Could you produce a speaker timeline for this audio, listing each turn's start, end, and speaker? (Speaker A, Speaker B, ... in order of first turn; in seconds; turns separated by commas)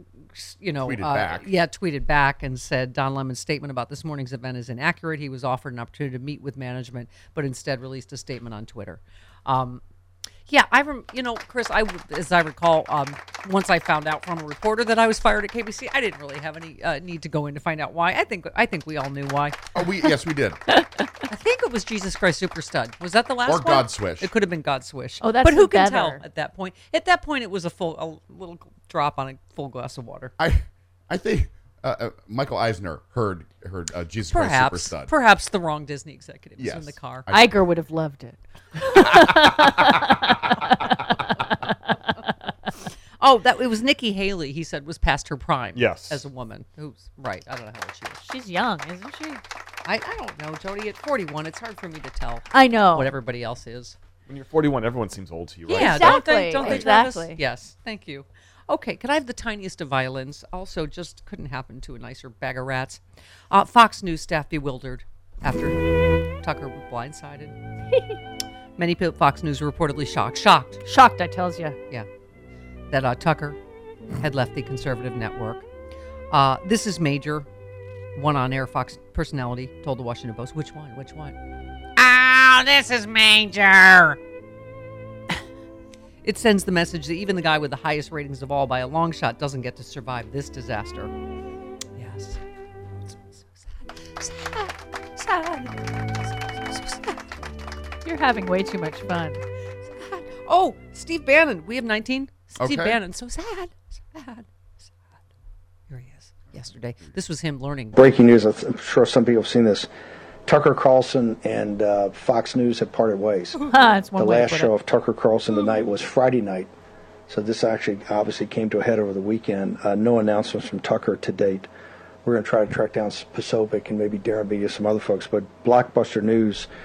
Speaker A: 0.2-9.8, Speaker B: 0.8-1.5, Speaker A: 10.5-19.6, Speaker B: 19.7-20.6, Speaker A: 21.3-30.3, Speaker B: 23.4-24.3, Speaker C: 25.2-26.2, Speaker B: 30.4-35.1, Speaker A: 34.3-37.3, Speaker B: 36.6-37.5, Speaker C: 37.3-41.5, Speaker A: 43.2-48.2, Speaker D: 45.7-46.2, Speaker C: 48.2-49.4, Speaker A: 49.8-54.0, Speaker C: 52.5-53.1, Speaker D: 54.3-56.8, Speaker A: 55.7-65.8, Speaker C: 55.7-57.4, Speaker A: 66.4-67.5, Speaker A: 68.8-70.8, Speaker C: 70.8-71.8, Speaker A: 72.9-73.6, Speaker A: 74.2-75.7, Speaker A: 76.3-77.5, Speaker A: 78.1-81.4, Speaker A: 82.0-84.2, Speaker A: 86.2-91.1, Speaker A: 92.0-92.4, Speaker A: 93.0-97.3, Speaker C: 98.0-99.4, Speaker A: 99.8-105.0, Speaker B: 102.6-103.0, Speaker A: 105.9-108.0, Speaker E: 107.9-109.9, Speaker E: 110.5-113.6, Speaker C: 113.7-114.7, Speaker E: 114.2-116.7, Speaker E: 117.3-121.7, Speaker E: 122.2-126.7